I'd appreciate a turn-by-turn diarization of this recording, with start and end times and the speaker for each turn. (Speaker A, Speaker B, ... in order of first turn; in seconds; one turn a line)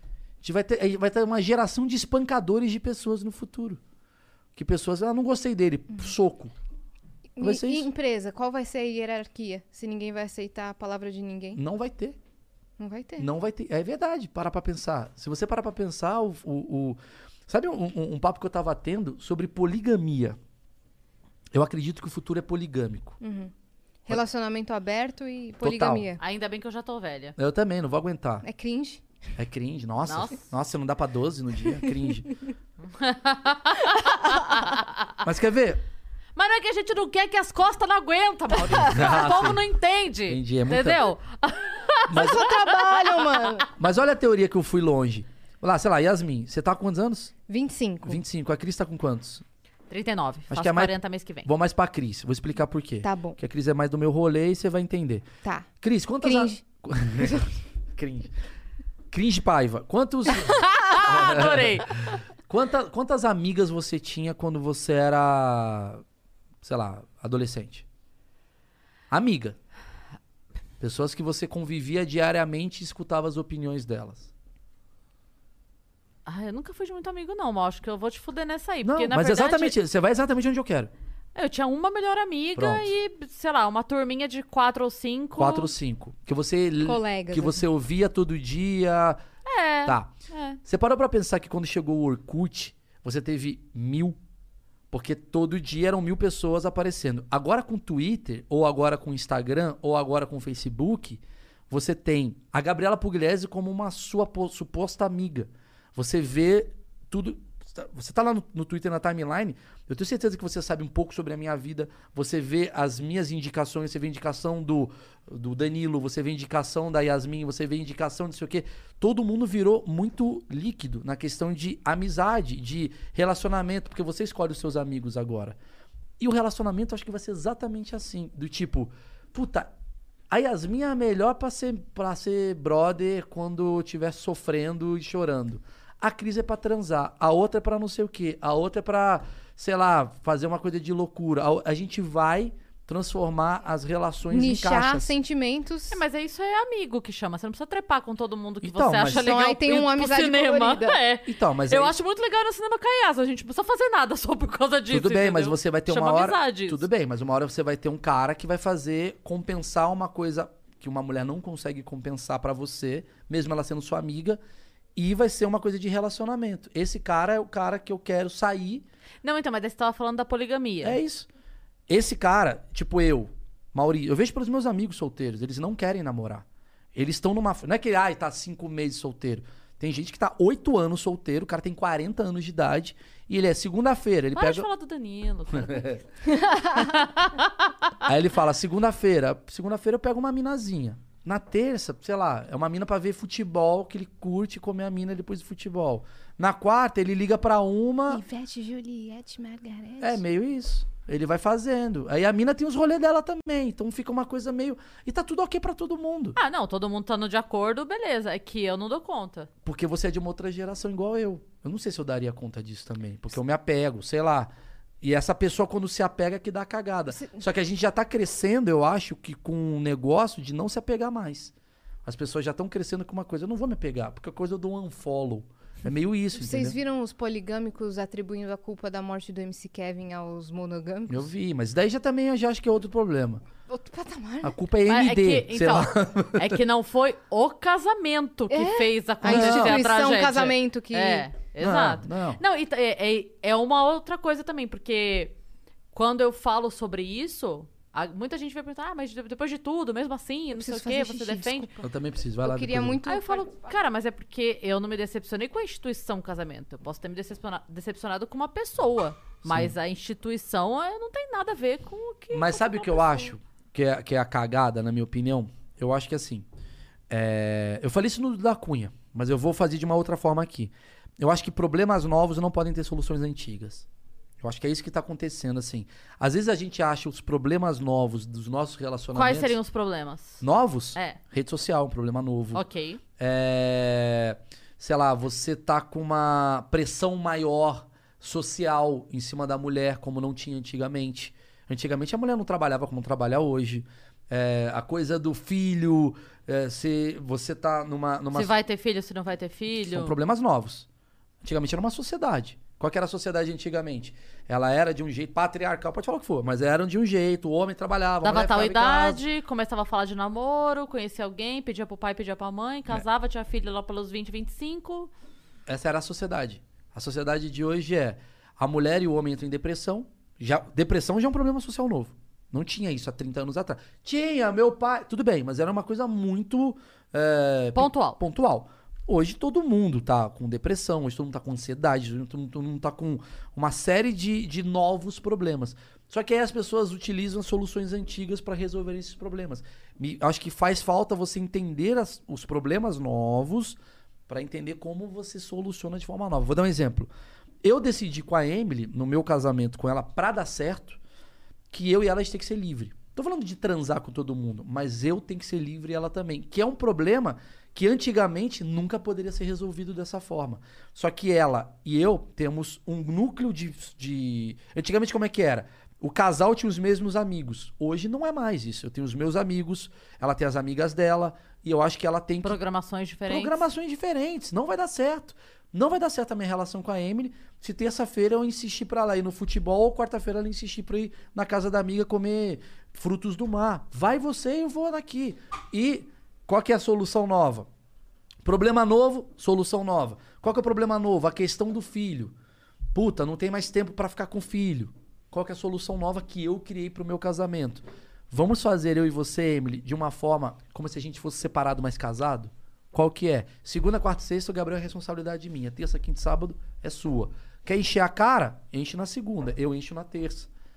Speaker A: 0.4-3.8
Speaker A: 4.5-6.5
Speaker B: 7.3-11.6
Speaker A: 7.4-7.9
Speaker A: 11.5-12.2
Speaker B: 12.8-13.3
Speaker A: 13.2-20.4
Speaker A: 21.5-23.2
Speaker B: 23.2-23.5
Speaker B: 24.1-26.2
Speaker A: 25.6-26.1
Speaker C: 26.2-27.4
Speaker A: 27.4-28.4
Speaker B: 28.4-29.0
Speaker A: 29.4-32.3
Speaker C: 30.0-30.4
Speaker C: 32.9-35.1
Speaker A: 35.2-35.8
Speaker C: 36.4-42.4
Speaker A: 38.5-39.6
Speaker A: 40.3-41.1
Speaker A: 42.1-42.5
Speaker B: 42.1-43.7
Speaker A: 43.7-47.3
Speaker B: 47.5-48.2
Speaker A: 48.0-49.4
Speaker C: 49.9-51.5
Speaker A: 50.5-55.2
Speaker B: 53.0-53.4
Speaker A: 55.8-58.3
Speaker B: 56.2-56.6
Speaker A: 59.1-66.0
Speaker C: 60.5-62.2
Speaker A: 66.6-67.8
Speaker A: 69.1-69.6
Speaker A: 70.8-74.3
Speaker C: 76.2-79.8
Speaker A: 78.8-80.9
Speaker C: 81.3-85.7
Speaker A: 82.5-82.9
Speaker A: 85.4-89.2
Speaker B: 86.8-87.6
Speaker C: 89.4-90.6
Speaker A: 89.8-90.1
Speaker A: 90.6-94.2
Speaker A: 94.9-125.6
Speaker A: 126.2-129.7
Speaker A: 130.3-145.1
Speaker B: 144.3-146.0
Speaker C: 145.9-156.8
Speaker A: 148.6-149.4
Speaker B: 149.1-151.0
Speaker A: 151.2-151.9
Speaker A: 154.9-164.4
Speaker A: 164.9-168.8
Speaker C: 169.2-171.0
Speaker A: 170.8-171.3
Speaker A: 171.9-184.7
Speaker C: 184.3-186.0
Speaker A: 185.5-186.0
Speaker C: 186.6-187.7
Speaker A: 188.0-198.2
Speaker B: 198.1-200.2
Speaker A: 200.0-206.4
Speaker C: 206.3-209.5
Speaker A: 209.6-221.5
Speaker A: 222.0-226.8
Speaker B: 226.4-231.3
Speaker A: 231.1-233.4
Speaker B: 233.7-234.5
Speaker A: 234.4-236.6
Speaker C: 234.8-245.3
Speaker B: 238.5-241.3
Speaker A: 239.2-239.9
Speaker A: 241.6-242.4
Speaker C: 245.9-251.7
Speaker B: 250.6-251.8
Speaker A: 251.8-253.0
Speaker B: 252.4-253.5
Speaker C: 253.1-263.3
Speaker A: 259.4-259.7
Speaker A: 262.3-266.4
Speaker A: 267.1-273.9
Speaker A: 274.4-279.6
Speaker C: 279.1-280.4
Speaker A: 280.4-282.6
Speaker C: 282.5-283.0
Speaker A: 283.2-298.5
Speaker C: 298.3-300.1
Speaker A: 299.8-300.9
Speaker A: 301.4-309.2
Speaker C: 308.2-315.1
Speaker A: 315.7-347.1
Speaker C: 327.7-328.2
Speaker A: 347.6-351.0
Speaker A: 351.7-372.6
Speaker C: 372.4-373.7
Speaker A: 373.3-387.7
Speaker A: 388.4-392.3
Speaker A: 392.9-410.5